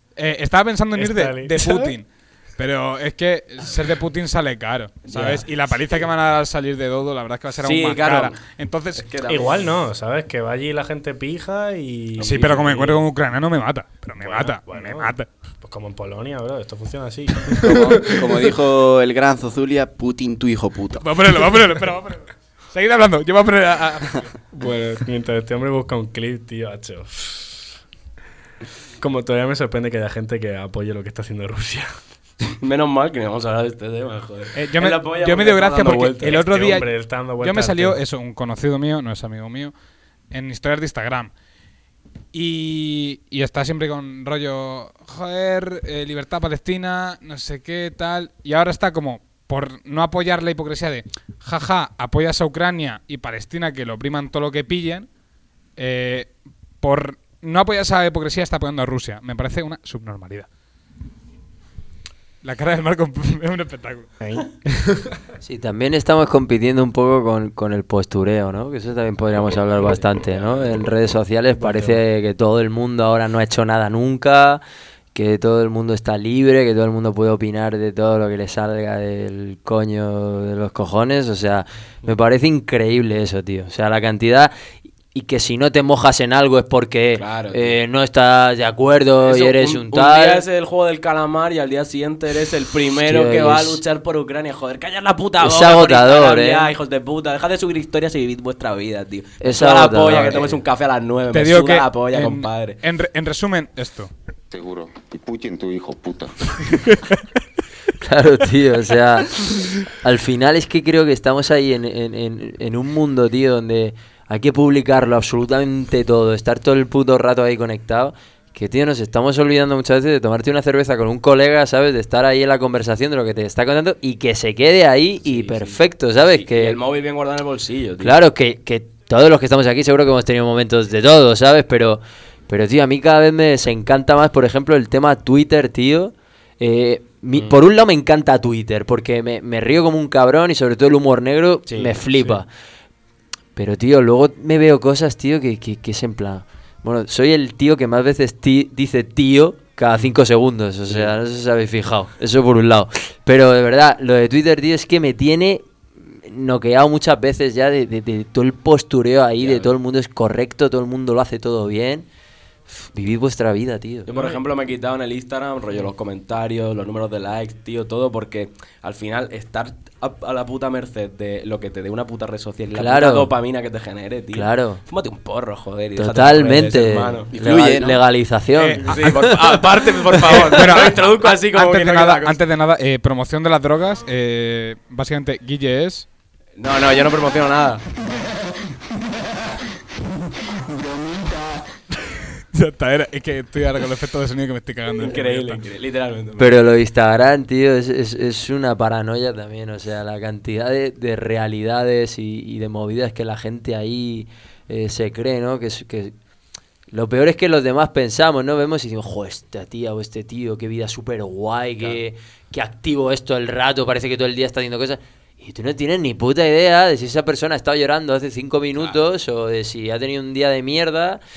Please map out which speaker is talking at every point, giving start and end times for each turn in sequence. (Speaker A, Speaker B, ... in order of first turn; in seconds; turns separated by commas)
Speaker A: 0.2-9.1, Speaker B: 0.9-2.0, Speaker C: 5.0-5.5, Speaker B: 5.2-5.4, Speaker C: 7.6-8.4, Speaker C: 9.0-9.7, Speaker B: 9.3-13.1, Speaker A: 12.2-15.3, Speaker B: 14.2-18.3, Speaker D: 17.6-21.4, Speaker A: 21.0-24.3, Speaker B: 24.5-27.7, Speaker B: 29.0-31.9, Speaker C: 32.5-36.5, Speaker A: 34.5-39.7, Speaker B: 36.2-38.0, Speaker A: 40.3-41.3, Speaker A: 42.3-55.1, Speaker A: 55.8-60.5, Speaker A: 62.4-64.1, Speaker B: 64.2-65.1, Speaker E: 65.4-74.6, Speaker C: 69.4-70.9, Speaker B: 71.6-72.0, Speaker E: 75.1-84.5, Speaker E: 85.1-90.4, Speaker C: 87.2-87.8, Speaker C: 89.2-102.8, Speaker E: 93.0-93.8, Speaker E: 95.4-96.7, Speaker E: 99.4-100.6, Speaker A: 101.3-104.1, Speaker F: 104.5-106.6, Speaker A: 106.7-107.2, Speaker E: 108.0-109.4, Speaker E: 110.0-126.8, Speaker C: 125.2-128.2, Speaker E: 128.0-142.5, Speaker C: 141.7-142.4, Speaker E: 143.6-162.1, Speaker C: 150.9-151.2, Speaker C: 159.4-159.7, Speaker E: 162.7-164.1, Speaker C: 164.1-177.3, Speaker E: 172.7-173.3, Speaker E: 174.3-174.8, Speaker E: 176.0-179.2, Speaker D: 177.3-178.0, Speaker A: 178.6-179.6, Speaker C: 178.8-182.4, Speaker A: 180.2-186.1, Speaker C: 186.6-187.8, Speaker A: 192.5-195.6, Speaker C: 195.0-196.5, Speaker E: 196.4-206.1, Speaker E: 206.9-221.2